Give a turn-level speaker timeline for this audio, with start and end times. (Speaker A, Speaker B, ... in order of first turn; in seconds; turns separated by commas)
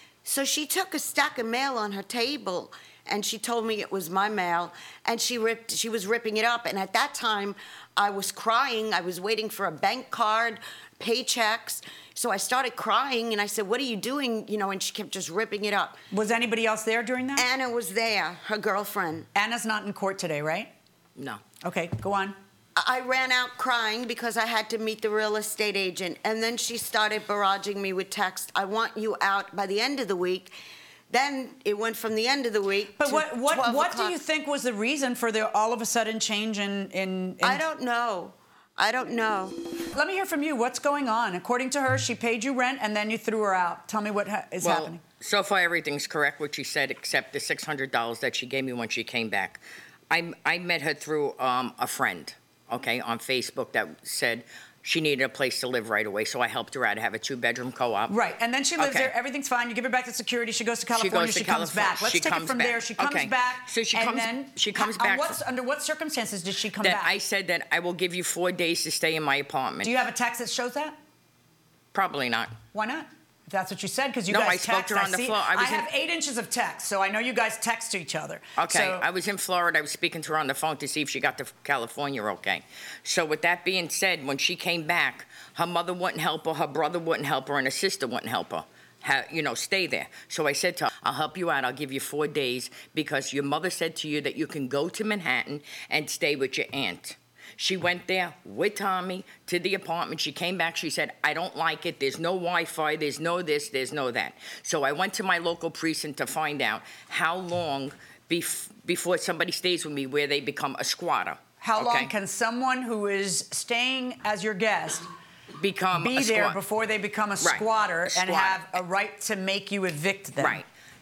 Speaker A: 0.2-16.0, Speaker B: 16.1-17.4, Speaker A: 17.4-19.3, Speaker B: 19.3-20.7, Speaker C: 21.2-21.4, Speaker B: 21.6-22.4, Speaker A: 22.8-30.5, Speaker A: 31.1-34.1, Speaker B: 33.0-37.6, Speaker A: 37.4-39.5, Speaker B: 39.9-45.0, Speaker C: 44.6-58.1, Speaker B: 58.1-67.1, Speaker C: 58.8-59.1, Speaker C: 60.9-65.4, Speaker C: 66.8-70.0, Speaker B: 69.8-71.0, Speaker C: 71.9-72.5, Speaker B: 72.7-79.0, Speaker C: 74.3-75.9, Speaker C: 78.6-112.1, Speaker B: 111.6-115.1, Speaker C: 115.6-116.6, Speaker B: 115.9-120.6, Speaker C: 117.4-118.8, Speaker C: 120.4-120.6